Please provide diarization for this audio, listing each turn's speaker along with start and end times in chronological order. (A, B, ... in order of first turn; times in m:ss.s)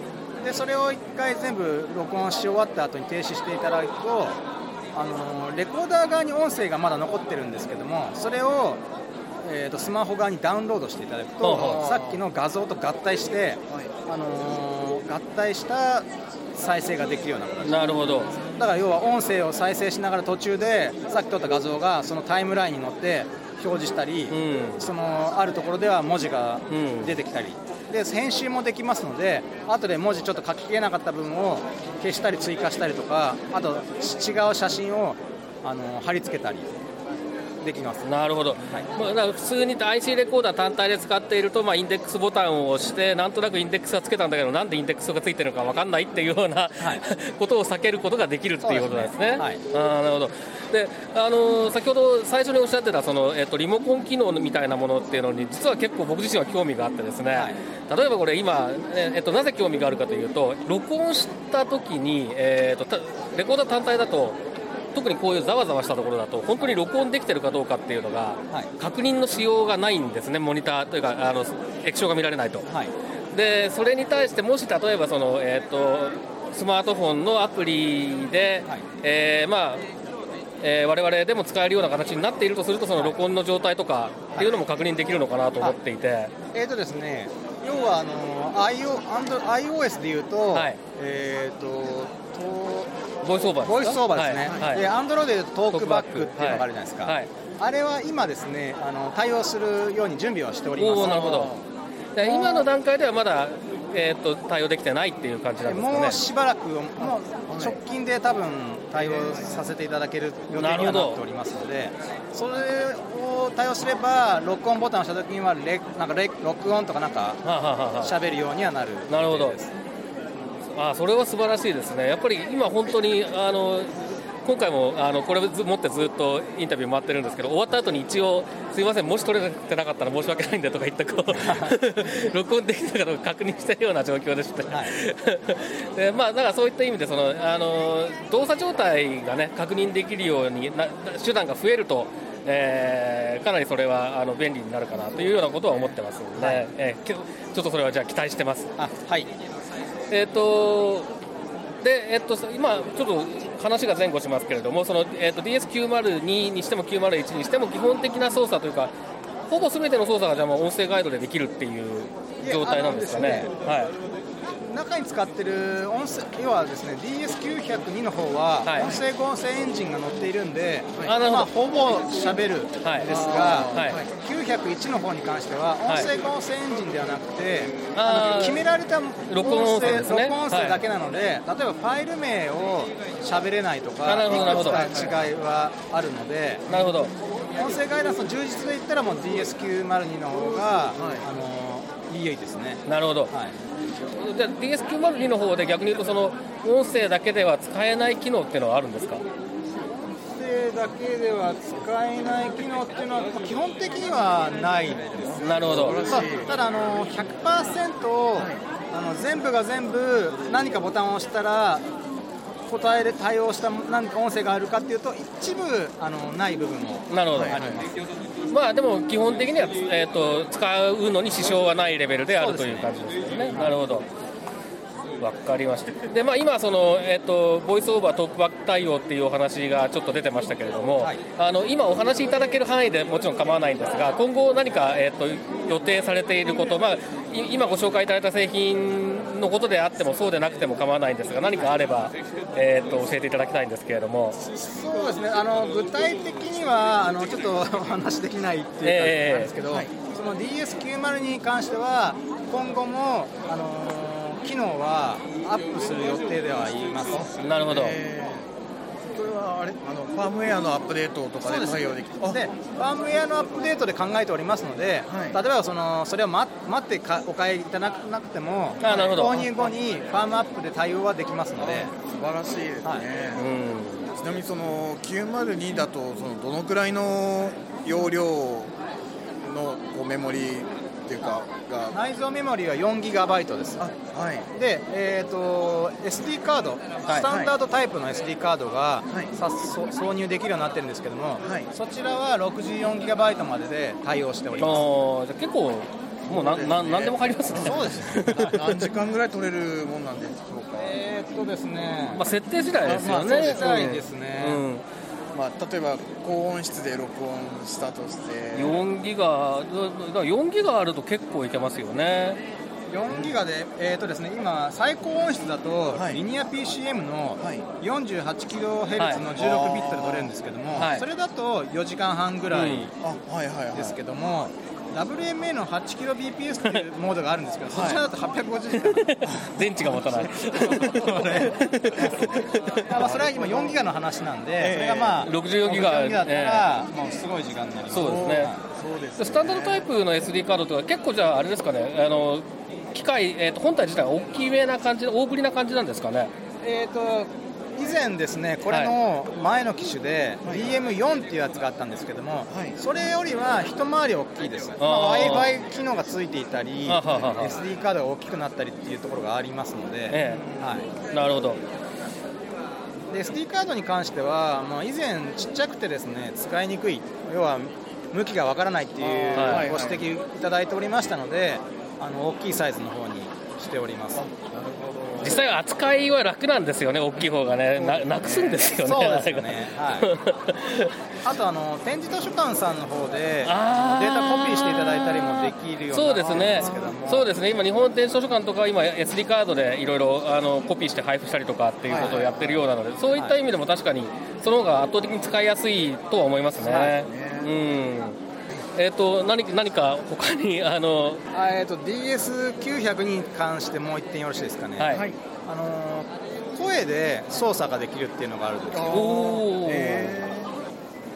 0:00.4-0:04.4 A
0:04.9-0:08.8 A
0:09.4-0:17.9 A
0:11.4-0:11.8 B
0:11.5-0:12.2 C
0:17.6-0:18.3 B
0:18.3-0:18.6 C
0:18.4-0:36.7 A
0:24.3-0:24.9 B
0:26.7-0:27.2 B
0:37.6-0:38.1 A
0:38.0-1:04.4 B
0:48.6-0:49.6 A
0:57.3-0:57.6 A
1:04.9-1:12.7 B
1:13.3-1:19.8 B
1:20.6-1:26.3 B
1:24.3-1:24.6 A
1:26.5-1:32.9 A
1:33.2-1:34.9 B
1:33.6-1:41.5 A
1:34.4-1:34.8 C
1:35.7-1:37.3 B
1:40.7-1:41.5 B
1:41.0-1:41.7 C
1:42.2-1:46.2 B
1:42.2-1:42.7 A
1:45.6-1:57.4 A
1:47.5-1:47.8 C
1:49.0-1:49.5 C
1:50.6-1:51.2 B
1:57.4-1:58.1 B
1:58.0-1:59.7 A
1:59.1-1:59.6 B
2:00.7-2:03.9 B
2:04.4-2:28.8 B
2:11.3-2:11.8 A
2:25.7-2:26.7 A
2:28.8-2:29.3 A
2:30.1-2:31.1 B
2:31.8-2:38.9 B
2:39.5-2:43.9 B
2:42.4-2:43.5 A
2:44.7-3:06.7 A
2:48.6-2:49.0 B
2:48.8-2:49.0 C
2:51.1-2:51.5 B
2:52.8-2:53.1 B
2:53.1-2:54.1 C
2:53.6-2:54.0 B
2:57.9-2:58.6 B
2:59.3-3:00.8 B
3:04.0-3:04.8 B
3:04.3-3:05.3 C
3:06.7-3:07.1 B
3:07.5-3:13.6 A
3:11.0-3:11.3 C
3:12.9-3:13.3 B
3:14.1-3:19.2 B
3:20.3-3:31.9 A
3:25.4-3:26.0 B
3:25.6-3:26.6 C
3:28.4-3:28.6 C
3:32.7-3:38.0 A
3:37.1-3:37.6 B
3:37.3-3:37.9 C
3:38.5-3:44.1 B
3:42.4-3:42.9 A
3:43.5-3:43.8 A
3:45.2-4:04.4 B
4:04.4-4:17.3 A
4:08.8-4:09.5 B
4:17.1-4:18.5 C
4:17.4-4:18.0 B
4:19.1-4:22.4 C
4:21.4-4:31.9 A
4:25.1-4:25.4 C
4:28.8-4:29.4 B
4:28.8-4:29.7 C
4:31.6-4:33.5 C
4:33.3-4:34.1 B
4:34.1-4:38.8 C
4:39.4-4:42.0 C
4:41.9-4:43.9 A
4:43.8-4:44.5 C
4:44.5-4:54.9 A
4:47.2-4:47.5 C
4:51.4-4:51.7 C
4:54.6-4:58.9 B
4:56.3-5:01.0 C
4:57.6-4:58.5 A
5:00.8-5:02.2 A
5:02.1-5:04.8 B
5:02.8-5:03.7 C
5:02.8-5:04.6 A
5:05.3-5:08.8 C
5:08.5-5:12.4 B
5:12.9-5:22.9 A
5:13.1-5:13.4 C
5:15.9-5:16.2 C
5:17.4-5:17.7 C
5:19.0-5:19.2 B
5:19.3-5:20.3 C
5:20.7-5:21.0 B
5:22.5-5:22.9 B
5:23.0-5:24.0 C
5:23.7-5:29.1 A
5:27.7-5:28.0 C
5:28.8-5:33.0 B
5:29.2-5:30.3 C
5:30.6-5:31.6 A
5:32.0-5:32.3 C
5:32.9-5:38.6 A
5:33.0-5:33.8 C
5:34.6-5:35.3 C
5:35.2-5:36.7 B
5:37.9-5:39.9 C
5:37.9-5:38.5 B
5:39.2-5:46.3 B
5:46.6-6:00.9 A
5:48.7-5:48.9 B
5:50.4-5:50.8 C
5:52.5-5:52.8 C
5:54.8-5:55.5 B
5:56.9-5:57.6 B
6:00.1-6:00.4 B
6:00.2-6:00.8 C
6:01.1-6:01.6 B
6:03.1-6:14.2 A
6:09.0-6:10.1 C
6:09.4-6:09.7 B
6:14.1-6:15.4 C
6:15.2-6:21.0 B
6:17.8-6:18.6 C
6:18.6-6:20.1 A
6:21.2-6:27.3 A
6:23.5-6:38.2 B
6:26.2-6:26.9 C
6:31.8-6:32.5 C
6:36.6-6:36.9 A
6:36.6-6:37.5 C
6:38.8-6:41.2 B
6:41.3-6:49.1 A
6:44.8-6:45.0 B
6:44.9-6:45.2 C
6:48.7-6:50.6 C
6:48.9-6:50.2 B